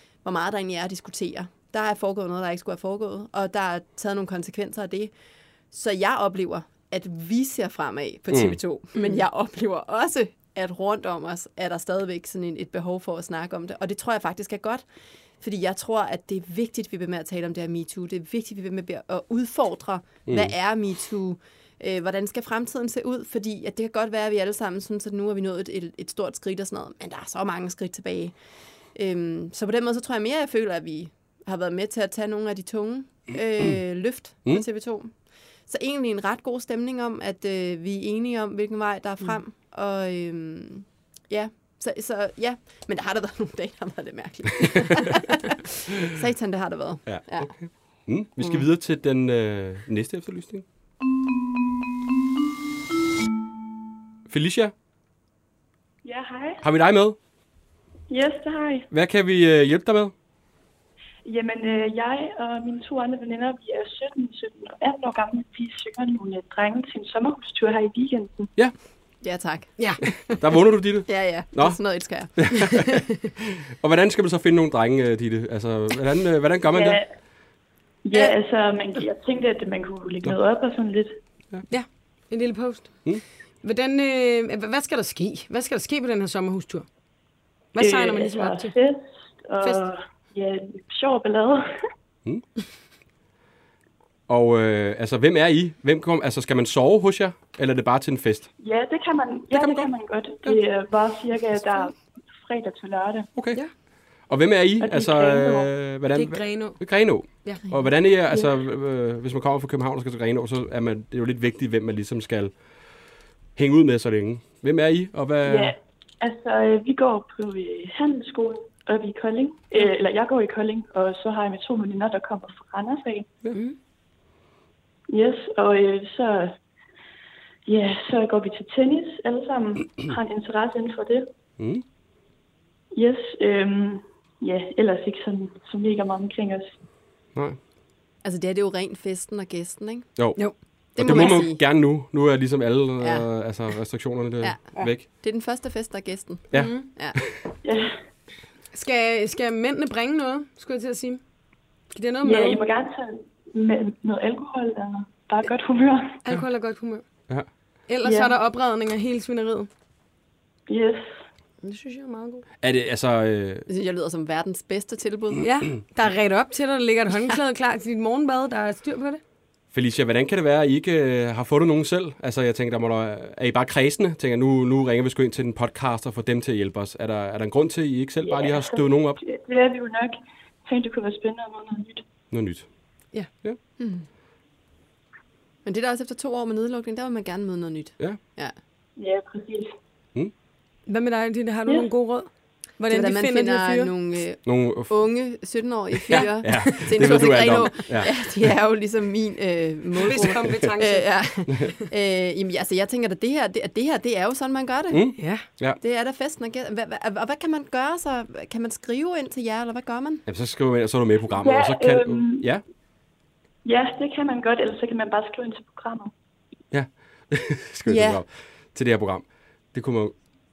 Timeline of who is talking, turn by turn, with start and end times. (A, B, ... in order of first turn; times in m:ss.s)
0:00.2-0:05.1 A
0:05.7-0:14.8 A
0:08.3-0:08.6 B
0:15.4-0:28.3 A
0:20.3-0:20.5 B
0:29.0-0:35.1 A
0:35.7-0:47.5 A
0:47.1-0:50.6 B
0:54.3-0:54.7 B
0:56.0-0:56.6 C
0:56.6-0:57.2 B
0:58.1-0:58.9 C
0:58.9-1:00.1 B
1:01.3-1:08.5 C
1:09.2-1:10.0 A
1:09.8-1:10.0 D
1:10.3-1:11.8 B
1:11.1-1:12.7 A
1:12.4-1:17.0 B
1:16.7-1:17.1 C
1:18.1-1:21.1 C
1:21.7-1:26.9 D
1:27.8-1:28.8 D
1:27.8-1:31.6 C
1:29.6-1:29.9 D
1:34.3-1:38.5 B
1:38.6-1:43.3 C
1:39.5-1:39.9 B
1:43.4-1:43.6 B
1:44.3-1:52.6 B
1:44.8-1:45.7 C
1:46.1-1:46.8 D
1:53.6-1:55.8 B
1:55.5-2:03.3 C
2:05.1-2:06.5 C
2:07.7-2:11.2 C
2:11.6-2:11.8 B
2:13.0-2:16.7 C
2:18.2-2:20.1 A
2:20.2-2:25.1 B
2:21.0-2:21.6 A
2:21.1-2:21.4 D
2:23.0-2:23.3 A
2:24.4-2:27.2 A
2:26.5-2:27.3 B
2:26.5-2:26.9 D
2:27.6-2:28.0 C
2:28.7-2:31.2 D
2:31.9-2:32.6 D
2:32.2-2:36.2 C
2:36.2-2:37.0 D
2:37.9-2:39.7 D
2:38.0-2:38.4 C
2:40.7-2:41.0 C
2:41.6-2:42.4 D
2:42.6-2:43.7 B
2:43.7-2:45.4 A
2:45.4-2:49.2 D
2:49.7-2:59.2 B
2:58.3-3:00.2 C
3:00.7-3:02.0 C
3:02.3-3:02.7 B
3:03.3-3:03.6 B
3:03.8-3:04.1 A
3:05.6-3:08.6 A
3:09.0-3:09.7 C
3:10.9-3:13.9 D
3:12.9-3:30.2 A
3:14.4-3:15.0 B
3:16.1-3:18.1 B
3:16.1-3:17.2 D
3:20.0-3:21.7 D
3:24.9-3:25.8 B
3:25.2-3:25.4 D
3:30.3-3:32.6 B
3:31.4-3:32.4 C
3:33.6-3:36.1 C
3:36.7-3:40.2 B
3:37.9-3:38.2 A